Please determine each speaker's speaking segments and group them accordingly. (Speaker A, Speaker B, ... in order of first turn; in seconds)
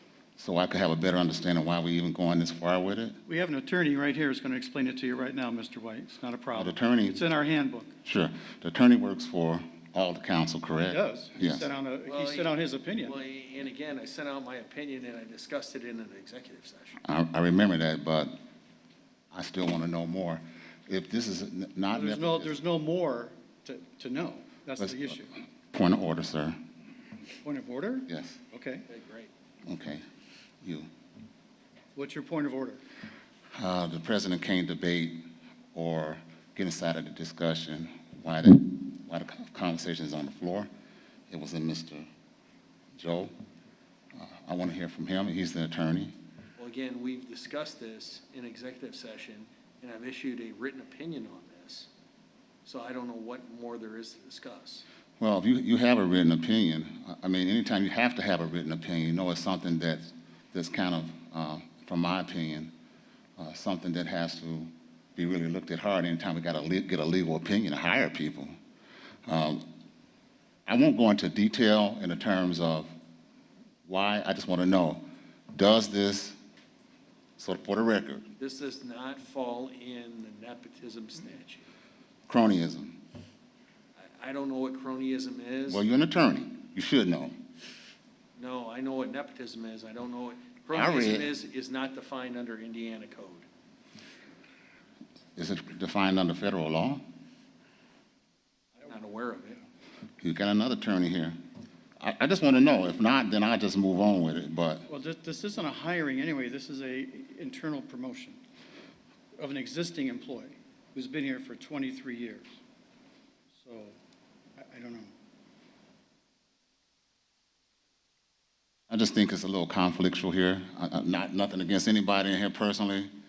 Speaker A: 0.4-3.2, 6.5-7.2, 8.1-11.7, 17.1-18.3, 19.3-22.6, 25.7-26.6, 28.1-28.4, 29.7-30.0, 30.6-30.9, 33.6-40.7, 41.3-42.0, 43.0-43.3, 44.1-46.1, 55.2-62.7, 63.4-68.5, 69.3-69.7, 70.7-72.9, 73.9-76.4, 77.4-78.3, 82.3-83.0, 85.7-87.3, 90.7-91.3, 95.4-97.0, 100.2-101.4, 102.0-104.9, 118.9-123.1
Speaker B: 3.3-8.0, 10.9-13.2, 21.9-25.3, 27.4-28.9, 31.9-32.8, 104.9-108.4, 109.4-112.5, 113.6-114.0, 114.6-115.1
Speaker C: 12.1-17.0, 28.9-29.3, 46.6-51.9, 52.6-54.9, 78.4-81.7, 84.0-85.8, 88.4-93.5, 98.8-99.6